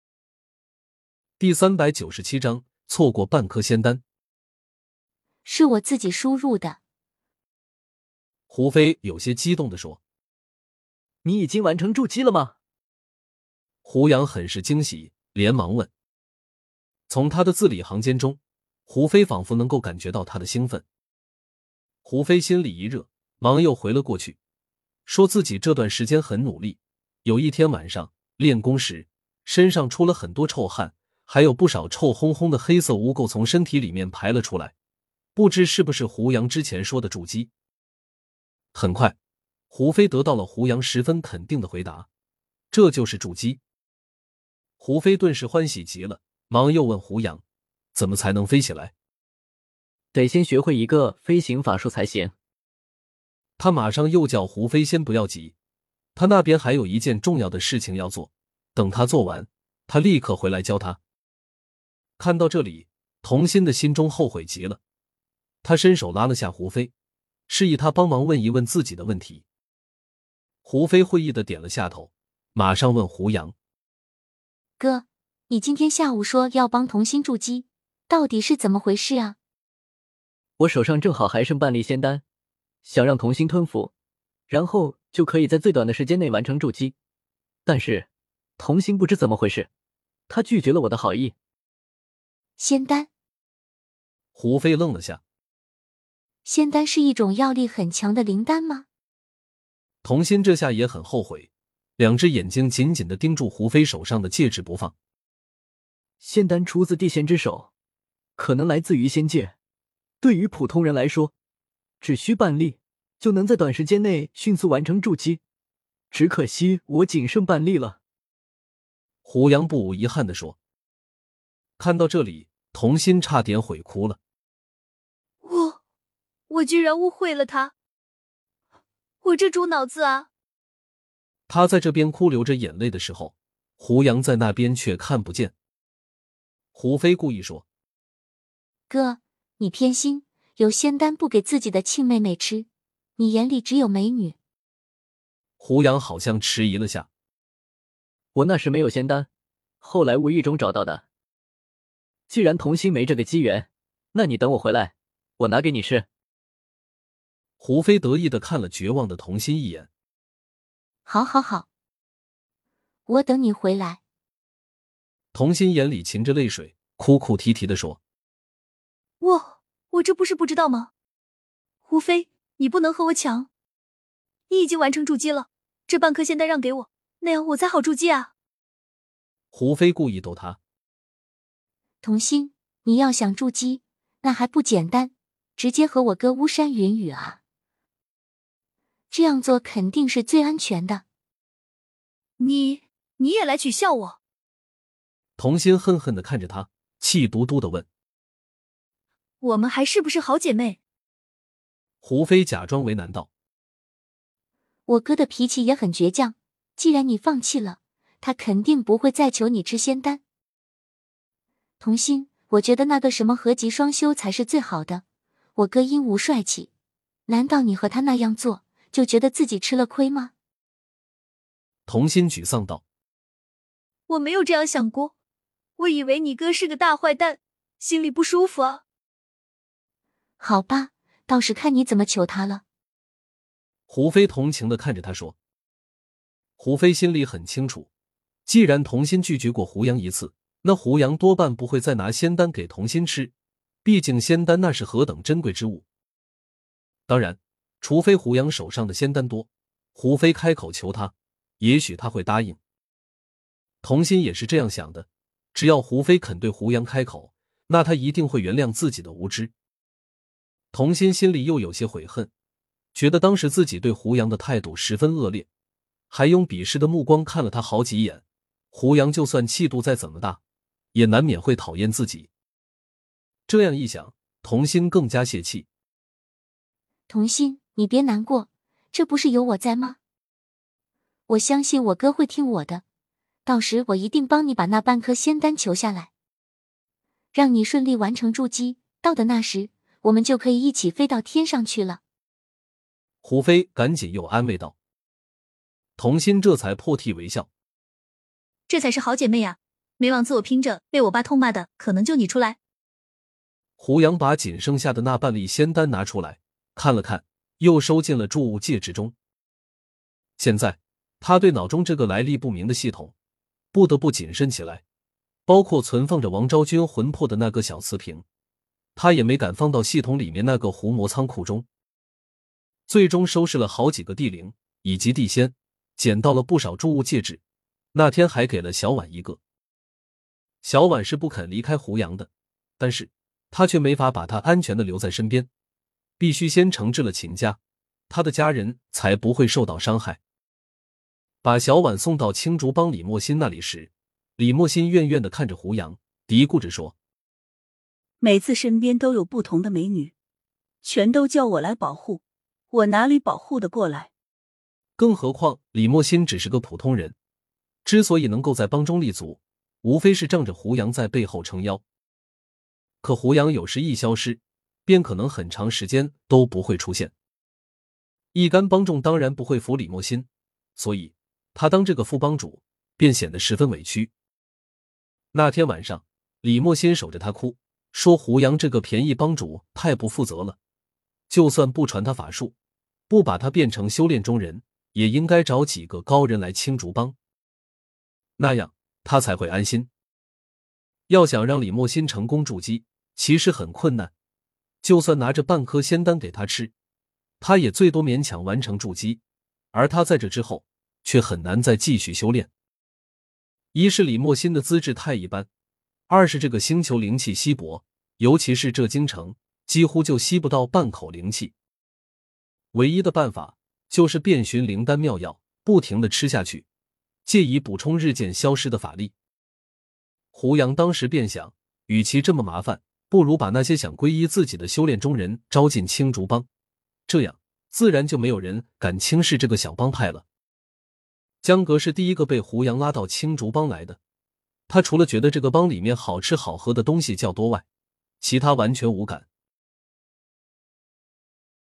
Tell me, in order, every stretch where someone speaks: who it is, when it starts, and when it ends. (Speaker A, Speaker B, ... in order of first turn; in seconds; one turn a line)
Speaker A: 1.4-4.0
Speaker B: 5.5-6.8
Speaker A: 8.5-10.0
Speaker C: 11.2-12.5
Speaker A: 13.8-15.9
Speaker A: 17.1-20.8
Speaker A: 22.0-24.4
Speaker A: 25.1-34.7
Speaker A: 35.4-37.5
Speaker A: 38.7-39.1
Speaker A: 39.7-42.1
Speaker A: 42.7-43.6
Speaker A: 44.8-47.4
Speaker A: 47.9-48.9
Speaker C: 50.1-52.3
Speaker A: 53.6-55.5
Speaker A: 56.1-61.0
Speaker A: 62.2-64.8
Speaker A: 65.6-66.9
Speaker A: 67.5-69.4
Speaker A: 70.6-73.5
Speaker B: 74.8-79.4
Speaker C: 80.6-82.2
Speaker C: 82.8-83.9
Speaker C: 84.5-86.9
Speaker C: 87.7-88.1
Speaker C: 88.6-89.7
Speaker C: 90.3-91.3
Speaker B: 92.6-93.1
Speaker A: 94.3-95.2
Speaker B: 96.4-98.8
Speaker A: 100.0-104.9
Speaker C: 106.2-107.7
Speaker C: 108.4-109.5
Speaker C: 110.2-111.3
Speaker C: 112.0-115.4
Speaker C: 116.1-118.0
Speaker A: 119.2-120.6
Speaker A: 121.8-124.2
Speaker D: 125.4-125.8
Speaker D: 126.5-127.7
Speaker D: 129.2-130.3
Speaker A: 131.5-135.5
Speaker A: 136.7-137.6
Speaker B: 138.9-142.7
Speaker B: 143.2-144.3
Speaker A: 145.6-147.1
Speaker C: 148.3-149.3
Speaker C: 149.8-151.0
Speaker C: 152.3-156.1
Speaker A: 157.6-159.9
Speaker B: 161.1-161.7
Speaker B: 163.1-164.0
Speaker A: 165.3-168.0
Speaker D: 169.2-170.9
Speaker D: 171.8-173.5
Speaker D: 174.5-178.3
Speaker A: 179.5-180.6
Speaker B: 182.0-187.4
Speaker B: 189.1-191.0
Speaker D: 192.4-194.2
Speaker A: 195.4-197.9
Speaker D: 199.4-200.8
Speaker A: 202.0-203.3
Speaker B: 204.9-210.2
Speaker B: 211.8-215.0
Speaker B: 215.6-216.7
Speaker B: 217.3-220.3
Speaker A: 221.9-222.8
Speaker D: 224.1-225.1
Speaker D: 225.8-228.8
Speaker B: 230.4-232.6
Speaker A: 233.9-235.3
Speaker A: 236.6-237.9
Speaker A: 238.4-243.3
Speaker A: 243.8-245.8
Speaker A: 247.1-252.6
Speaker A: 253.8-259.5
Speaker A: 260.7-262.3
Speaker A: 262.9-265.5
Speaker A: 266.1-270.4
Speaker A: 270.9-272.3
Speaker A: 273.5-275.7
Speaker B: 277.1-280.0
Speaker B: 281.3-282.8
Speaker B: 283.4-286.1
Speaker B: 287.3-292.0
Speaker A: 293.2-294.7
Speaker A: 296.0-297.5
Speaker D: 298.7-302.6
Speaker A: 303.8-309.1
Speaker A: 310.4-313.1
Speaker A: 313.7-314.8
Speaker A: 315.5-318.2
Speaker A: 318.9-321.6
Speaker A: 322.9-327.4
Speaker A: 327.9-329.4
Speaker A: 330.6-335.5
Speaker A: 336.2-337.6
Speaker A: 338.1-340.2
Speaker A: 341.4-346.9
Speaker E: 348.2-350.1
Speaker E: 350.8-352.2
Speaker E: 352.7-354.1
Speaker A: 355.0-357.1
Speaker A: 357.8-361.8
Speaker A: 363.0-367.1
Speaker A: 368.3-374.1
Speaker A: 375.3-380.6
Speaker A: 381.3-382.5
Speaker A: 383.1-387.1
Speaker A: 388.4-389.9
Speaker A: 391.1-394.1
Speaker A: 394.8-396.7
Speaker A: 397.4-399.2
Speaker A: 399.7-402.5
Speaker A: 403.7-405.5
Speaker A: 406.1-411.5
Speaker A: 412.7-416.6
Speaker A: 417.2-419.1
Speaker A: 420.3-426.5
Speaker A: 427.1-430.2
Speaker A: 431.4-434.0
Speaker A: 434.7-437.6
Speaker A: 438.2-439.2